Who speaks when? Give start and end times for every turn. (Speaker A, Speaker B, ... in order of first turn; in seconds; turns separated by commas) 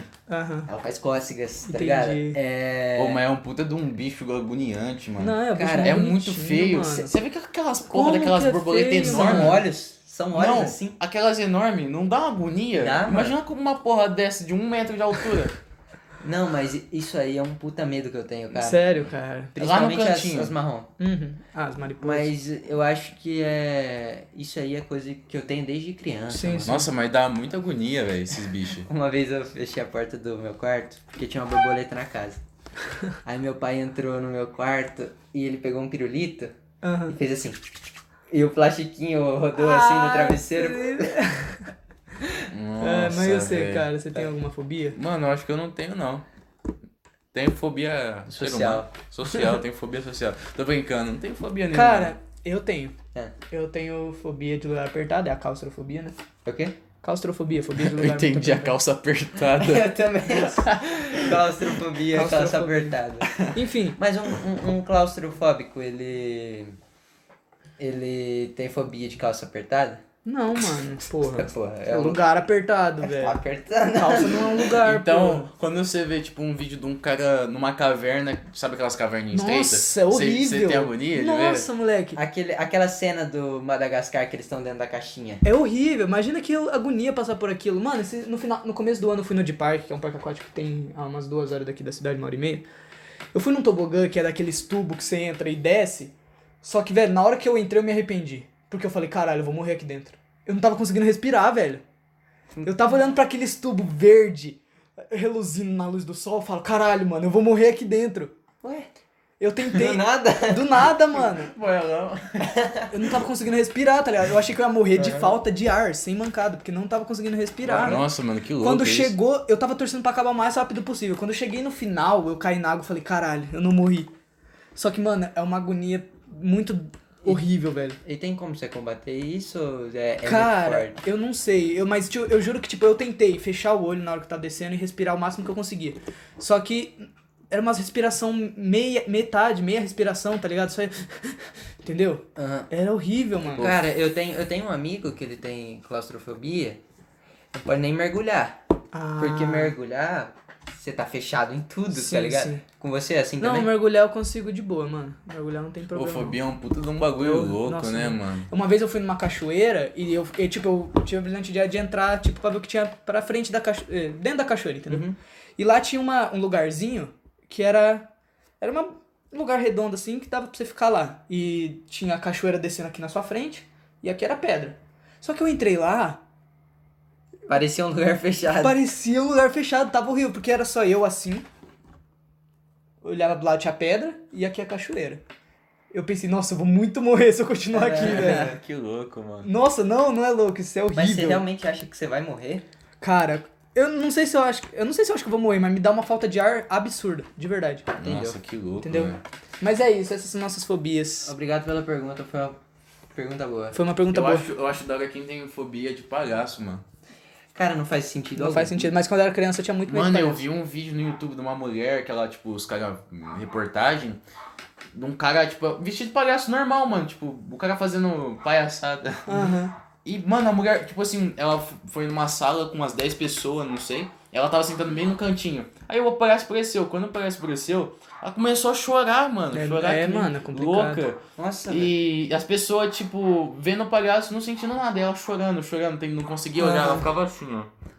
Speaker A: 0.3-0.7, Speaker B: 0.7-3.2, Speaker A: 1.7-2.4, Speaker C: 3.0-9.6, Speaker A: 5.2-7.1, Speaker B: 5.6-6.0, Speaker A: 7.9-9.6, Speaker B: 9.0-11.0, Speaker C: 10.3-15.6, Speaker B: 12.8-13.4, Speaker B: 16.2-18.8, Speaker A: 18.5-19.5, Speaker B: 19.6-20.9, Speaker C: 19.6-20.6, Speaker A: 21.0-22.3, Speaker B: 22.0-26.8, Speaker A: 26.3-26.9, Speaker C: 26.6-28.9, Speaker B: 28.9-32.4, Speaker B: 33.2-36.5, Speaker A: 36.8-37.2, Speaker B: 37.1-37.6, Speaker B: 38.3-41.1, Speaker A: 39.6-41.7, Speaker C: 42.5-43.9, Speaker A: 42.8-45.0, Speaker C: 45.0-46.3, Speaker C: 47.3-52.1, Speaker B: 48.3-48.9, Speaker A: 51.7-53.0, Speaker A: 53.5-56.2, Speaker B: 56.5-56.8, Speaker A: 57.0-58.8, Speaker C: 57.8-59.9, Speaker B: 59.5-66.8, Speaker A: 62.1-64.0, Speaker B: 67.8-70.0, Speaker A: 70.2-73.4, Speaker B: 71.3-72.2, Speaker B: 73.0-74.6, Speaker A: 74.0-75.5, Speaker C: 74.7-81.7, Speaker A: 79.3-82.2, Speaker B: 82.2-85.4, Speaker A: 85.4-92.7, Speaker A: 93.3-101.8, Speaker A: 102.6-108.3, Speaker B: 108.6-108.9, Speaker A: 109.4-111.5, Speaker B: 109.7-110.8, Speaker C: 111.3-112.5, Speaker B: 112.4-112.9, Speaker A: 112.9-118.0, Speaker B: 115.0-115.4, Speaker B: 117.7-118.0, Speaker C: 117.7-119.2, Speaker A: 118.6-124.1, Speaker A: 124.8-128.0, Speaker B: 128.0-131.0, Speaker A: 130.2-143.7, Speaker B: 142.4-142.7, Speaker C: 143.6-143.8, Speaker B: 143.6-146.8, Speaker B: 147.5-148.6, Speaker A: 148.9-149.7, Speaker B: 149.2-153.7, Speaker A: 151.9-152.6, Speaker A: 153.4-156.4, Speaker C: 155.9-158.5, Speaker A: 157.0-165.0, Speaker B: 164.9-165.2, Speaker A: 165.6-176.2, Speaker B: 177.5-178.8, Speaker A: 178.6-181.5, Speaker A: 183.0-185.2, Speaker A: 185.9-188.6, Speaker B: 187.7-188.5, Speaker C: 188.0-189.5, Speaker A: 189.4-191.4, Speaker B: 190.9-192.7, Speaker A: 193.0-197.9, Speaker C: 198.0-199.2, Speaker B: 198.0-198.4, Speaker A: 198.8-201.3, Speaker B: 201.2-202.6, Speaker B: 203.1-203.8, Speaker A: 203.7-204.5, Speaker C: 204.1-206.8, Speaker B: 207.6-208.9, Speaker A: 208.4-210.4, Speaker C: 209.9-214.2, Speaker C: 214.9-219.5, Speaker A: 219.3-219.7, Speaker C: 220.1-237.7, Speaker A: 229.5-231.1, Speaker B: 231.4-231.9, Speaker A: 236.6-237.1